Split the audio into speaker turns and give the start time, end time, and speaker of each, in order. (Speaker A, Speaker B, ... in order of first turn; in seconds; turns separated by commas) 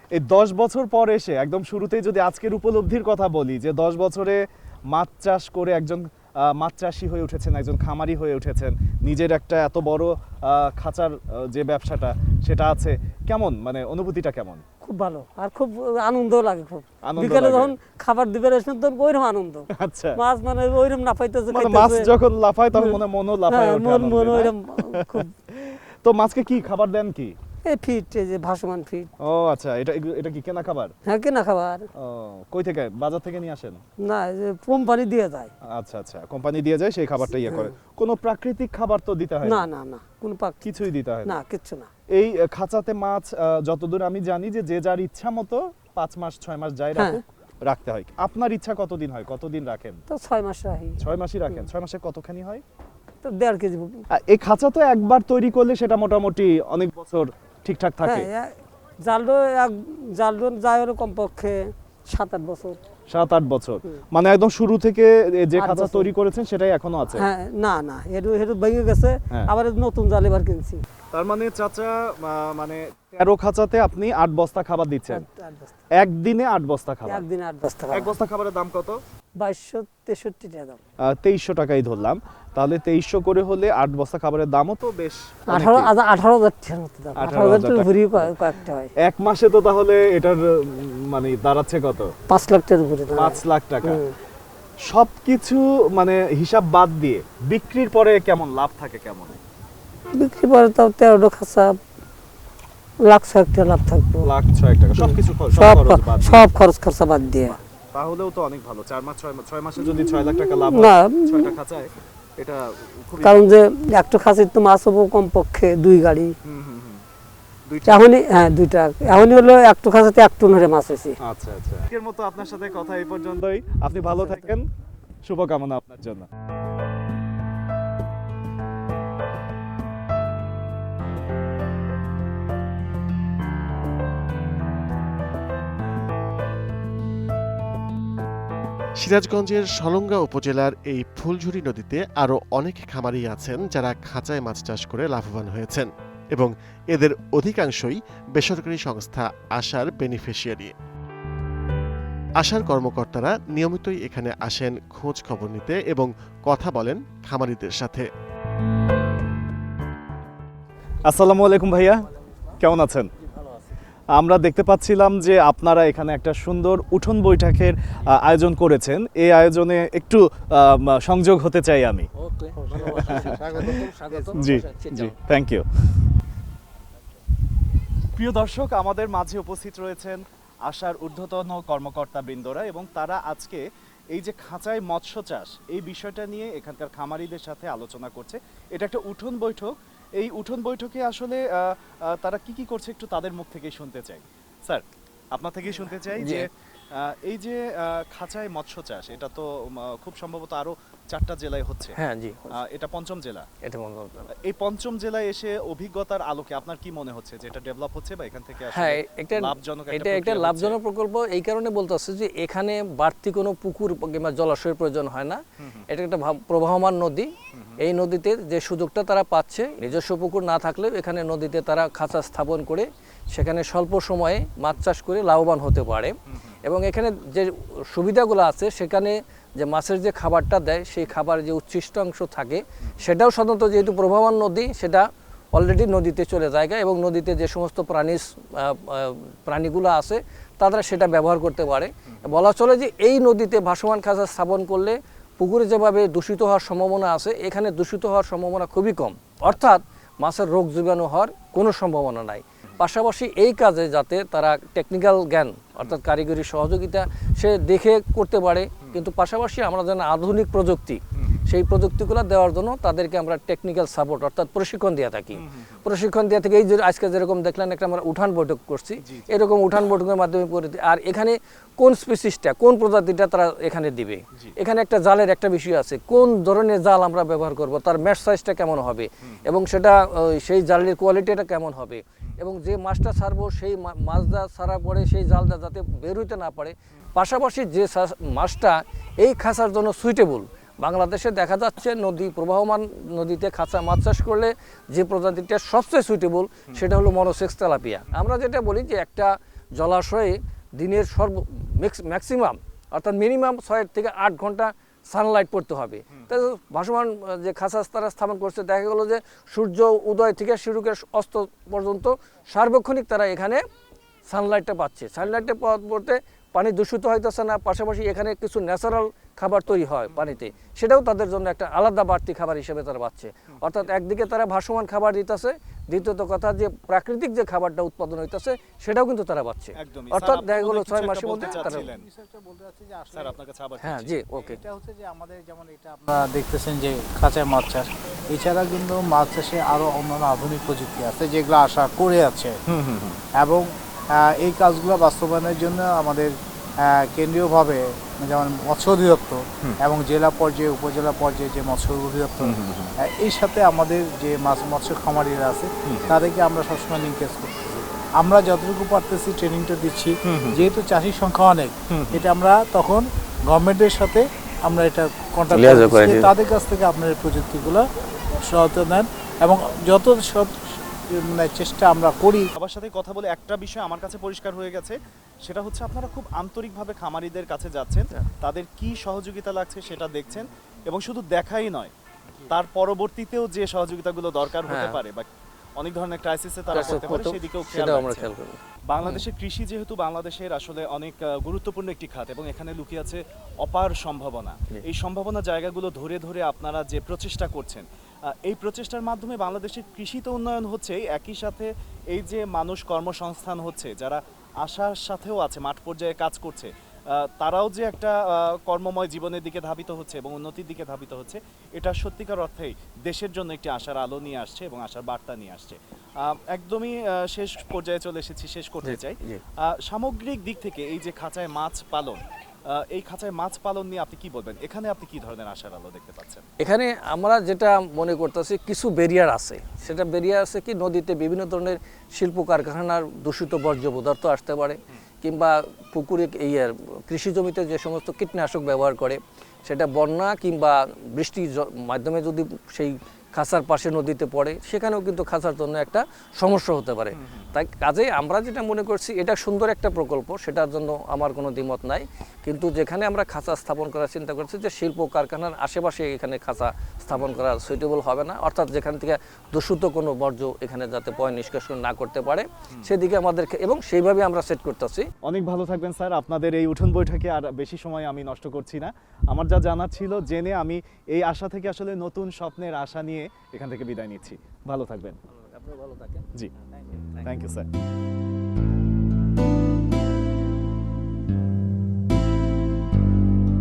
Speaker A: 0.1-14.6, Speaker B: 14.8-19.6, Speaker A: 17.0-17.7, Speaker A: 19.7-20.2, Speaker B: 20.2-22.1, Speaker A: 21.5-27.4, Speaker B: 23.5-25.3, Speaker B: 27.6-29.1, Speaker A: 29.2-30.9, Speaker B: 31.1-31.9, Speaker A: 31.9-33.8, Speaker B: 34.0-35.5, Speaker A: 35.7-39.7, Speaker B: 39.5-40.6, Speaker A: 40.6-41.4, Speaker B: 41.2-41.9, Speaker A: 42.1-50.0, Speaker B: 47.0-47.2, Speaker B: 50.1-51.0, Speaker A: 51.0-52.6, Speaker B: 53.2-54.0, Speaker A: 54.1-58.3, Speaker B: 58.0-58.5, Speaker B: 59.0-62.8, Speaker A: 63.1-67.3, Speaker B: 65.6-66.1, Speaker B: 67.2-70.8, Speaker A: 71.1-75.2, Speaker B: 75.1-75.7, Speaker A: 76.0-77.3, Speaker B: 77.1-78.1, Speaker A: 77.9-79.0, Speaker B: 79.4-80.8, Speaker A: 81.0-85.9, Speaker B: 85.5-88.9, Speaker A: 87.2-88.4, Speaker A: 89.0-92.1, Speaker B: 92.3-94.1, Speaker A: 93.1-94.0, Speaker A: 94.9-99.4, Speaker B: 100.1-101.8, Speaker B: 103.0-104.3, Speaker A: 104.2-106.5, Speaker B: 105.5-107.6, Speaker A: 107.9-113.5, Speaker B: 110.7-111.5, Speaker B: 113.2-116.3, Speaker A: 116.5-117.0, Speaker A: 117.7-118.1, Speaker B: 117.8-121.2, Speaker A: 121.2-124.7, Speaker A: 125.2-126.3, Speaker C: 139.0-150.7, Speaker C: 152.4-158.1, Speaker A: 161.1-162.1, Speaker A: 162.6-163.1, Speaker A: 164.1-172.1, Speaker B: 172.2-175.1, Speaker A: 172.8-175.7, Speaker A: 178.2-201.9, Speaker D: 196.2-196.4, Speaker D: 202.0-202.5, Speaker A: 202.6-203.5, Speaker D: 203.6-204.3, Speaker A: 204.4-210.8, Speaker D: 208.7-226.1, Speaker D: 226.7-235.0, Speaker D: 235.6-299.2, Speaker A: 265.3-265.8, Speaker A: 269.0-269.4, Speaker A: 279.2-279.5, Speaker D: 299.8-300.3, Speaker D: 300.8-308.6, Speaker B: 300.9-301.1, Speaker B: 302.2-303.2, Speaker B: 308.6-309.9, Speaker D: 309.3-311.1, Speaker B: 310.6-312.6, Speaker D: 312.6-313.6, Speaker B: 313.2-313.6, Speaker D: 314.3-325.2, Speaker A: 315.2-315.5, Speaker B: 319.7-320.6, Speaker A: 320.1-320.5, Speaker A: 323.5-323.9, Speaker B: 325.2-326.0, Speaker D: 326.0-331.8, Speaker B: 328.3-328.8, Speaker A: 329.8-332.0, Speaker B: 331.3-331.6, Speaker E: 331.4-333.4, Speaker A: 333.1-334.1, Speaker D: 333.8-334.6, Speaker E: 333.9-342.6, Speaker A: 342.7-343.2, Speaker E: 343.4-367.8, Speaker A: 352.4-352.9, Speaker A: 355.9-356.2, Speaker A: 360.2-360.6, Speaker A: 361.9-362.2, Speaker D: 365.6-366.1, Speaker B: 365.6-366.3, Speaker E: 368.5-370.5, Speaker E: 371.1-372.5, Speaker A: 372.6-381.9, Speaker A: 382.5-385.3, Speaker A: 385.8-388.3, Speaker D: 386.7-388.6, Speaker A: 388.9-426.4, Speaker D: 418.9-419.4, Speaker B: 426.6-447.1, Speaker D: 427.0-427.3, Speaker D: 427.9-428.4, Speaker D: 438.4-438.9, Speaker D: 442.1-442.4, Speaker D: 444.4-445.5, Speaker D: 446.5-446.8, Speaker A: 447.1-447.6, Speaker D: 447.5-449.4, Speaker B: 448.8-465.0, Speaker D: 451.0-451.3, Speaker D: 453.1-455.2, Speaker D: 457.1-457.7, Speaker A: 457.1-457.4, Speaker D: 462.9-463.3, Speaker A: 465.2-475.2, Speaker B: 475.6-476.1, Speaker A: 477.2-477.6